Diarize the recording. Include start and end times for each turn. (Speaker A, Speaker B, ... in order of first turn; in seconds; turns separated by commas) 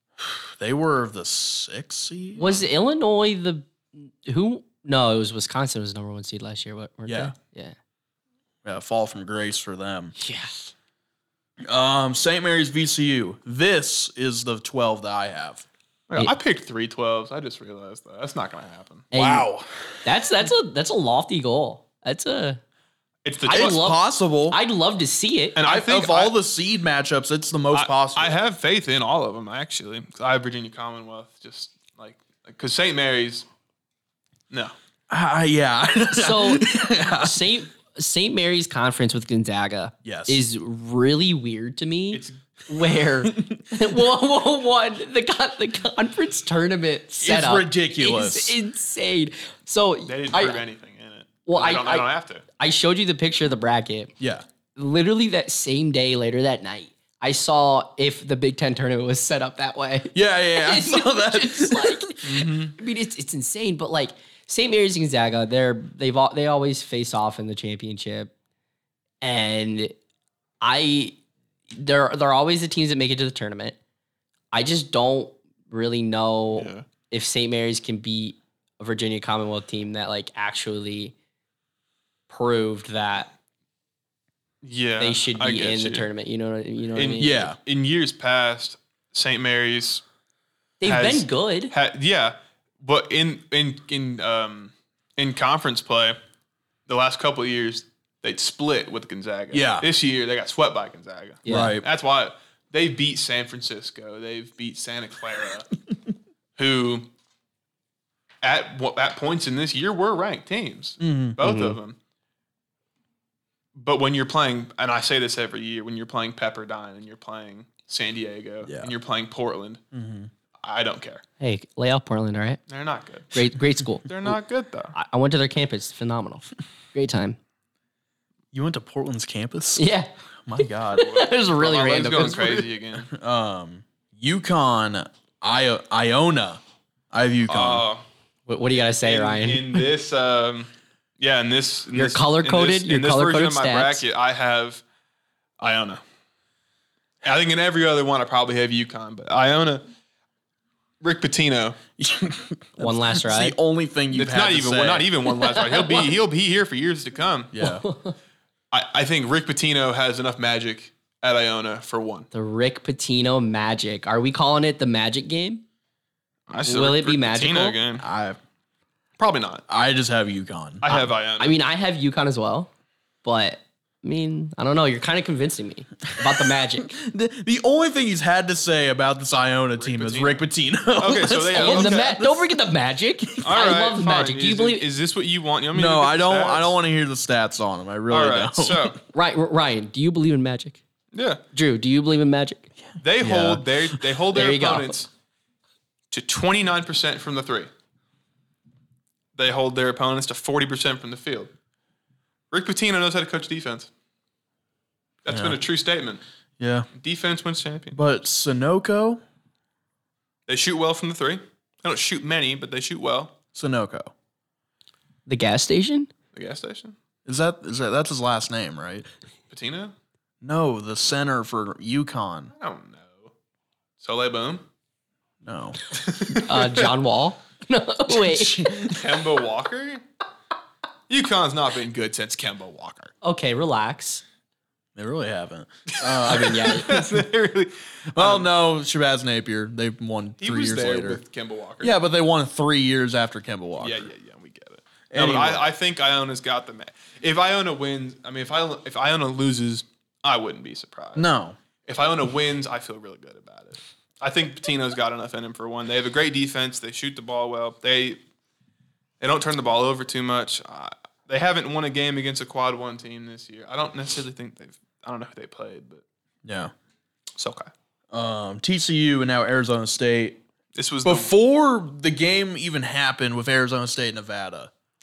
Speaker A: 0.2-2.5, Speaker B: 2.4-7.7, Speaker A: 7.0-7.3, Speaker A: 8.6-10.1, Speaker B: 10.2-10.7, Speaker A: 11.6-15.7, Speaker C: 16.1-19.1, Speaker B: 19.1-19.5, Speaker A: 19.1-19.9, Speaker B: 20.0-22.6, Speaker C: 23.2-23.9, Speaker B: 23.4-25.6, Speaker A: 23.5-24.6, Speaker C: 25.5-26.3, Speaker A: 25.6-28.4, Speaker C: 27.7-33.5, Speaker A: 35.1-37.5, Speaker B: 36.1-50.6, Speaker A: 40.0-40.4, Speaker C: 42.1-42.4, Speaker A: 43.2-43.6, Speaker A: 47.2-48.6, Speaker C: 50.0-52.4, Speaker B: 51.5-52.0, Speaker B: 52.6-54.1, Speaker A: 54.2-54.4, Speaker B: 54.8-68.3, Speaker A: 60.1-62.5, Speaker C: 62.2-62.7, Speaker B: 69.2-69.9, Speaker B: 70.6-71.1, Speaker B: 71.7-73.8, Speaker B: 74.5-81.1, Speaker C: 76.5-76.8, Speaker B: 82.3-83.3, Speaker C: 84.6-86.1, Speaker B: 85.0-87.5, Speaker C: 86.9-90.0, Speaker A: 87.2-87.6, Speaker B: 90.8-91.7, Speaker C: 90.8-96.2, Speaker C: 96.9-105.7, Speaker A: 99.5-99.9, Speaker B: 101.4-101.8, Speaker A: 101.5-101.8, Speaker C: 106.6-107.1, Speaker C: 108.4-112.0, Speaker A: 111.0-111.4, Speaker B: 111.4-111.8, Speaker C: 113.7-119.8, Speaker A: 118.6-118.9, Speaker A: 119.9-120.3, Speaker C: 120.6-121.2, Speaker B: 121.4-122.6, Speaker C: 122.7-123.5, Speaker B: 123.3-124.1, Speaker C: 124.0-124.9, Speaker B: 124.9-127.4, Speaker A: 128.5-129.8, Speaker B: 129.8-132.7, Speaker A: 130.4-131.2, Speaker C: 131.1-133.1, Speaker A: 133.1-137.8, Speaker C: 137.5-138.0, Speaker B: 138.5-139.8, Speaker C: 139.0-144.8, Speaker B: 141.9-144.0, Speaker C: 145.6-146.0, Speaker C: 147.2-149.8, Speaker C: 151.0-151.8, Speaker A: 152.0-155.1, Speaker B: 152.8-153.6, Speaker C: 154.1-157.5, Speaker B: 155.3-156.1, Speaker A: 157.5-157.8, Speaker B: 157.6-158.1, Speaker C: 158.7-162.3, Speaker B: 162.3-165.6, Speaker C: 166.5-168.1, Speaker B: 166.6-167.8, Speaker A: 168.0-168.4, Speaker C: 169.2-169.6, Speaker A: 169.7-171.0, Speaker C: 170.8-171.6, Speaker B: 170.9-172.7, Speaker B: 173.2-176.9, Speaker A: 176.2-182.5, Speaker C: 179.8-182.2, Speaker B: 181.5-184.8, Speaker C: 183.4-186.8, Speaker A: 185.7-189.0, Speaker C: 188.1-189.0, Speaker B: 189.1-190.8, Speaker C: 191.1-191.4, Speaker B: 191.5-192.7, Speaker A: 192.8-193.7, Speaker C: 193.0-195.1, Speaker B: 194.3-195.0, Speaker C: 196.1-197.7, Speaker C: 199.3-201.5, Speaker C: 202.5-203.9, Speaker C: 205.2-206.2, Speaker A: 205.3-205.6, Speaker A: 206.6-206.9, Speaker C: 206.9-208.0, Speaker A: 207.9-209.2, Speaker C: 210.5-213.3, Speaker A: 213.5-214.1, Speaker B: 215.3-216.1, Speaker C: 216.3-216.9, Speaker A: 217.2-219.1, Speaker C: 219.5-219.9, Speaker A: 220.4-222.5, Speaker C: 222.6-223.3, Speaker C: 224.0-224.6, Speaker A: 225.4-225.8, Speaker C: 225.9-226.9, Speaker B: 226.3-228.9, Speaker A: 228.1-229.0, Speaker C: 228.8-230.0, Speaker C: 231.1-233.1, Speaker B: 233.2-234.2, Speaker A: 234.9-236.8, Speaker C: 235.9-238.5, Speaker B: 236.2-237.1, Speaker A: 238.1-241.2, Speaker C: 240.4-242.0, Speaker A: 241.8-244.1, Speaker C: 243.8-251.3, Speaker A: 245.1-245.7, Speaker A: 251.1-251.6, Speaker C: 251.9-258.2, Speaker C: 259.2-266.0, Speaker A: 266.4-266.7, Speaker C: 267.4-267.7, Speaker A: 268.1-270.4, Speaker C: 270.7-271.3, Speaker A: 271.0-274.7